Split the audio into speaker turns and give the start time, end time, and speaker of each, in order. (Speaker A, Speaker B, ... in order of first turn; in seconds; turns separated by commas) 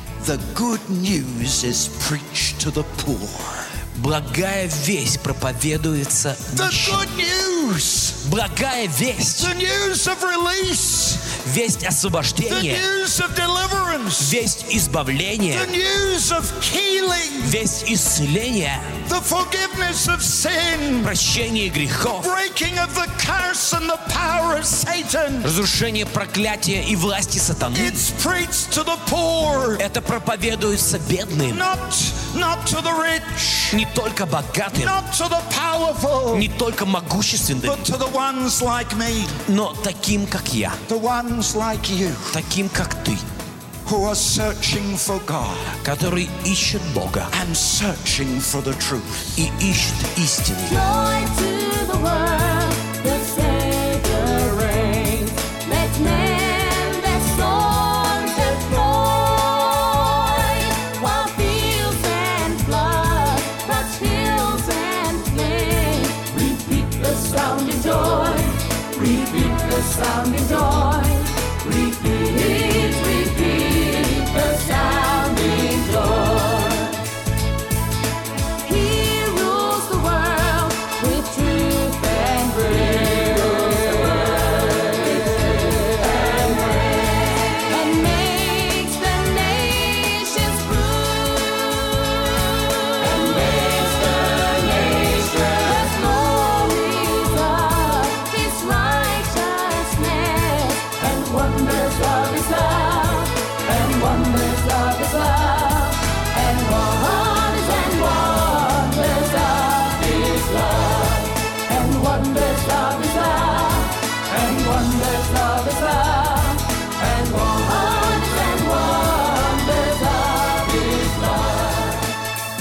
Speaker A: 0.2-3.7, Speaker B: 3.9-7.0, Speaker A: 6.5-8.2, Speaker B: 8.2-9.5, Speaker A: 9.4-11.3, Speaker B: 11.3-12.9, Speaker A: 12.4-14.4, Speaker B: 14.2-15.7, Speaker A: 15.5-17.6, Speaker B: 17.4-18.9, Speaker A: 19.1-21.1, Speaker B: 21.0-22.3, Speaker A: 22.1-25.5, Speaker B: 25.4-28.0, Speaker A: 27.7-29.8, Speaker B: 29.8-31.6, Speaker A: 31.5-33.8, Speaker B: 33.7-35.0, Speaker A: 34.7-36.5, Speaker B: 36.3-37.9, Speaker A: 37.6-39.3, Speaker B: 39.4-40.8, Speaker A: 40.9-42.4, Speaker B: 42.3-43.2, Speaker A: 43.8-45.7, Speaker B: 45.8-47.3, Speaker A: 47.3-49.3, Speaker B: 49.3-50.8, Speaker C: 50.6-77.1, Speaker C: 78.6-121.9